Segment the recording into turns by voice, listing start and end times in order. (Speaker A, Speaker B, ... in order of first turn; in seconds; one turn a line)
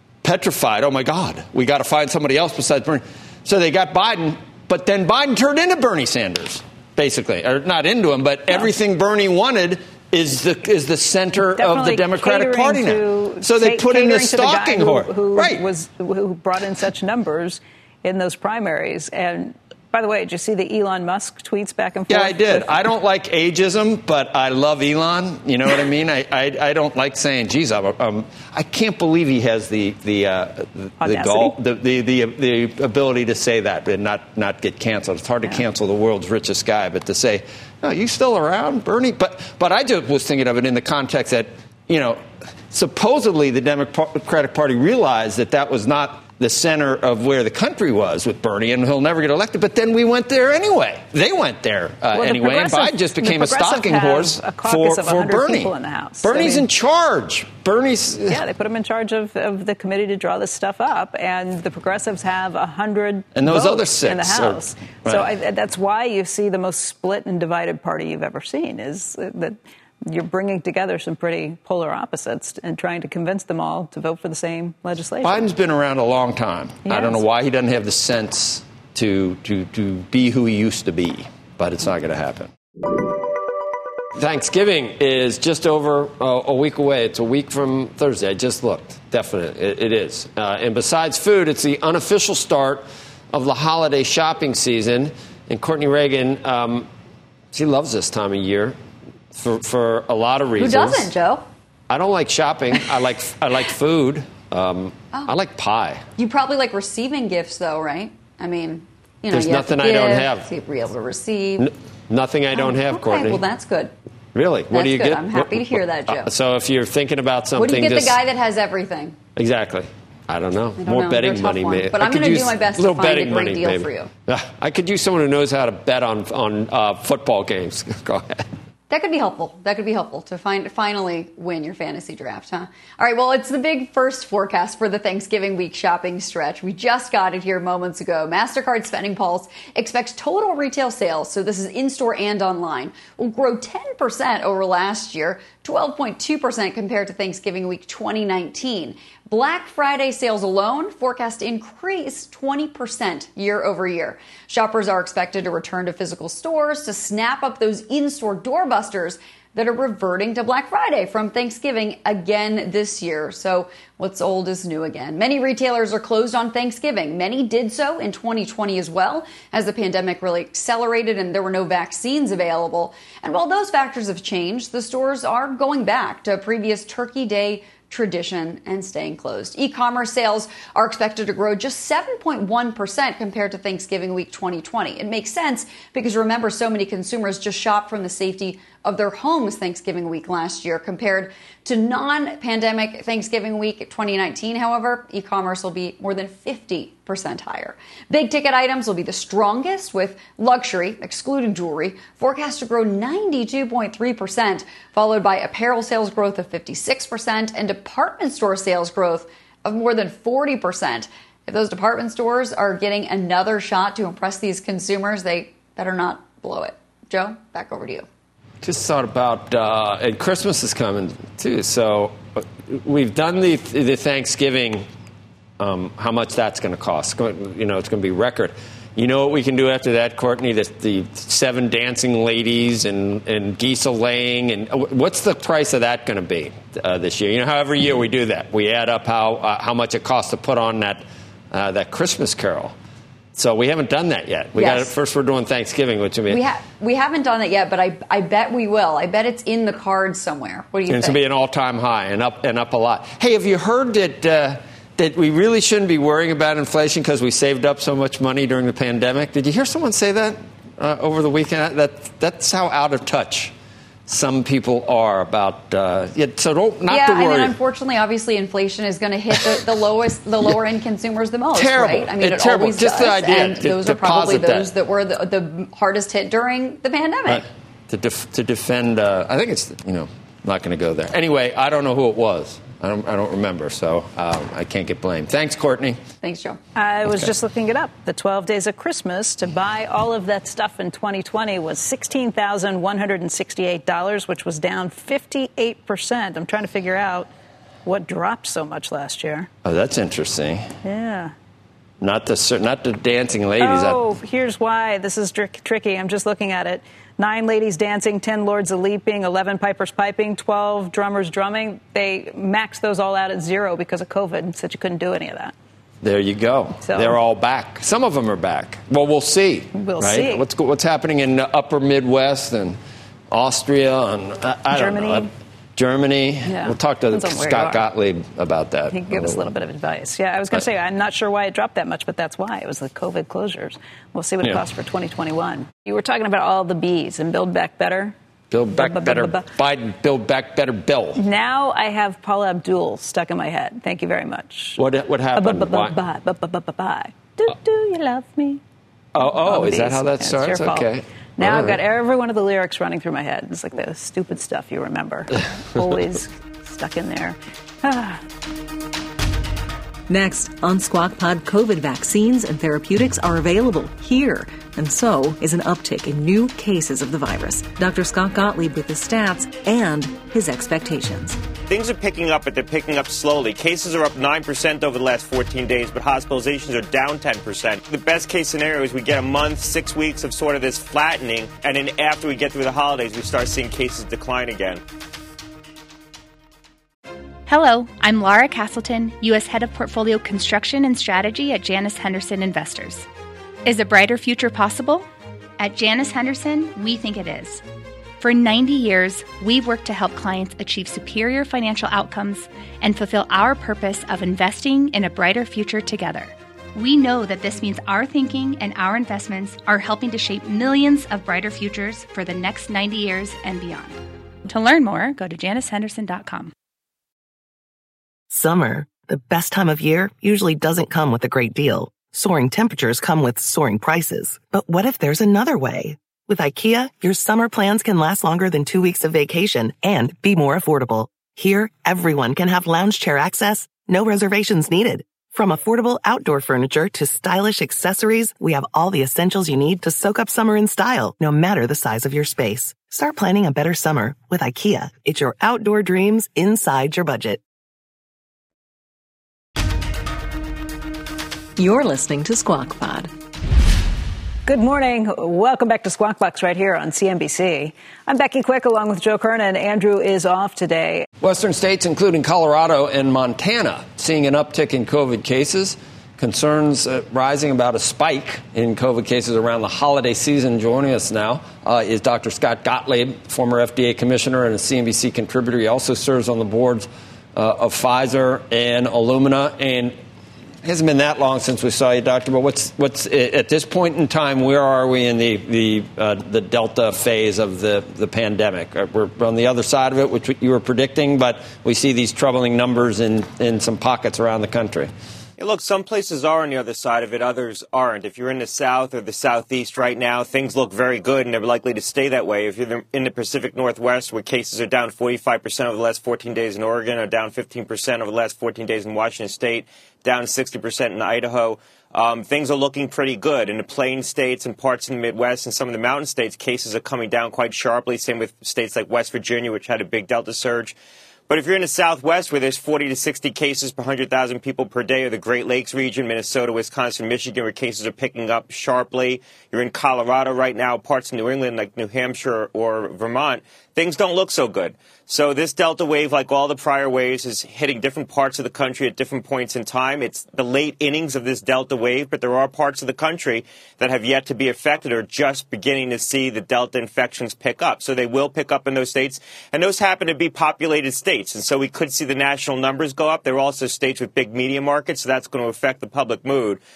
Speaker A: 0.2-15.7
Speaker B: 11.6-22.8
Speaker A: 22.1-58.4
Speaker B: 31.0-31.6
Speaker B: 52.1-56.7
Speaker B: 58.3-75.5
Speaker A: 63.4-65.3
Speaker A: 75.2-82.5
Speaker B: 76.9-77.2
Speaker A: 84.2-96.9
Speaker A: 97.5-98.8
Speaker A: 99.3-101.1
Speaker C: 100.6-101.5
Speaker A: 101.9-106.1
Speaker C: 106.2-111.7
Speaker A: 109.3-110.5
Speaker A: 111.6-113.4
Speaker C: 112.5-113.9
Speaker A: 114.3-118.2
Speaker C: 114.7-116.3
Speaker C: 117.6-119.2
Speaker A: 119.4-128.5
Speaker C: 120.8-124.1
Speaker C: 128.9-218.1
Speaker A: 218.6-224.9
Speaker A: 225.6-242.7
Speaker A: 243.3-246.4
Speaker C: 244.6-244.9
Speaker C: 246.3-251.2
Speaker A: 250.9-263.5
Speaker A: 264.1-267.5
Speaker C: 266.9-277.4
Speaker A: 271.5-274.7
Speaker A: 277.3-286.0
Speaker C: 286.2-286.6
Speaker B: 286.8-297.3
Speaker B: 297.9-299.5
Speaker A: 299.6-300.7
Speaker B: 300.8-301.3
Speaker A: 302.0-304.0
Speaker B: 303.6-315.6
Speaker A: 316.0-322.8
Speaker B: 316.8-317.2
Speaker B: 319.7-320.4
Speaker A: 323.3-329.5
Speaker B: 324.7-325.3
Speaker B: 326.4-327.9
Speaker B: 328.9-338.1
Speaker A: 338.5-341.2
Speaker B: 338.7-339.5
Speaker B: 341.2-344.8
Speaker A: 344.8-346.0
Speaker B: 345.3-348.6
Speaker A: 349.1-351.8
Speaker B: 349.2-358.2
Speaker D: 360.1-371.4
Speaker E: 371.7-384.8
Speaker F: 387.5-393.1
Speaker F: 393.6-395.1
Speaker F: 395.6-397.6
Speaker F: 398.2-416.5
Speaker G: 418.3-447.4
Speaker D: 451.6-453.1
Speaker B: 454.5-461.1
Speaker A: 461.2-479.9
Speaker A: 480.6-494.9
Speaker E: 495.4-520.8
Speaker E: 521.3-556.6